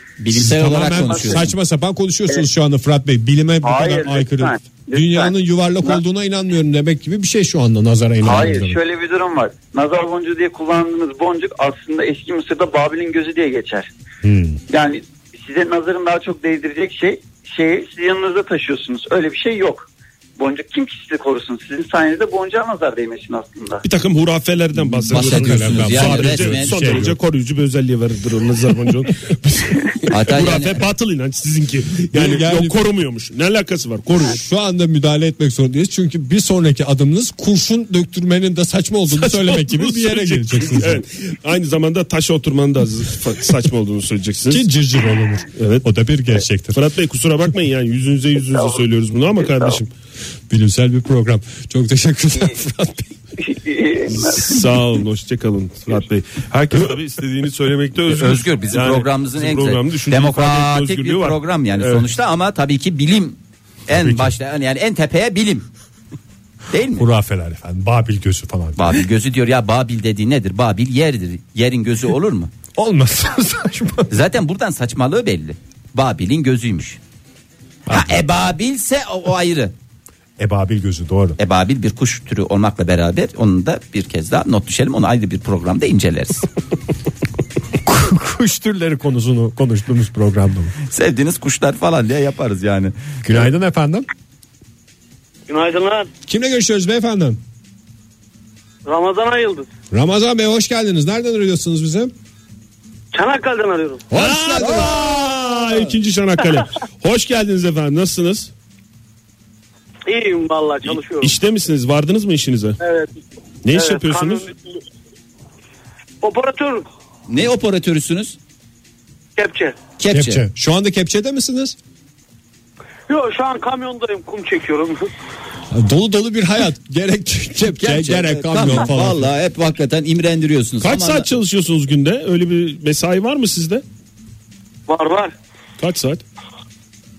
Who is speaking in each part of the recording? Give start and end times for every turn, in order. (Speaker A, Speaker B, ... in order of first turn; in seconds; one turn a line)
Speaker A: 0.2-1.5
Speaker B: 0.3-8.8
Speaker C: 3.6-5.3
Speaker C: 8.2-13.9
Speaker B: 14.2-14.6
Speaker C: 14.7-23.8
Speaker D: 23.8-34.4
Speaker B: 24.8-27.2
Speaker A: 25.1-27.0
Speaker A: 30.1-30.8
Speaker B: 32.1-32.8
Speaker B: 34.2-41.0
Speaker D: 39.1-44.6
Speaker B: 44.5-46.8
Speaker D: 45.5-45.9
Speaker D: 46.7-49.9
Speaker B: 50.5-53.0
Speaker C: 53.5-54.3
Speaker D: 54.1-62.1
Speaker A: 58.1-65.7
Speaker B: 64.0-64.3
Speaker A: 66.7-67.0
Speaker B: 67.0-69.0
Speaker A: 68.8-72.5
Speaker B: 72.7-74.1
Speaker A: 74.1-77.0
Speaker B: 77.9-78.2
Speaker A: 77.9-79.7
Speaker B: 80.4-81.4
Speaker A: 81.4-86.5
Speaker B: 87.8-90.7
Speaker A: 90.9-92.9
Speaker B: 93.2-94.0
Speaker E: 95.5-96.1
Speaker B: 96.3-97.4
Speaker E: 98.8-99.7
Speaker B: 99.9-102.1
Speaker E: 103.1-104.1
Speaker B: 104.1-105.0
Speaker D: 104.1-108.5
Speaker E: 110.0-111.3
Speaker D: 110.8-112.8
Speaker E: 112.8-113.1
Speaker D: 113.6-114.5
Speaker E: 113.7-114.8
Speaker E: 116.2-116.8
Speaker A: 117.3-118.4
Speaker E: 119.4-119.8
Speaker A: 120.0-120.4
Speaker B: 120.1-121.8
Speaker E: 123.1-125.0
Speaker B: 125.7-129.3
Speaker A: 127.8-131.3
Speaker D: 130.8-133.8
Speaker E: 134.9-135.3
Speaker D: 135.8-136.2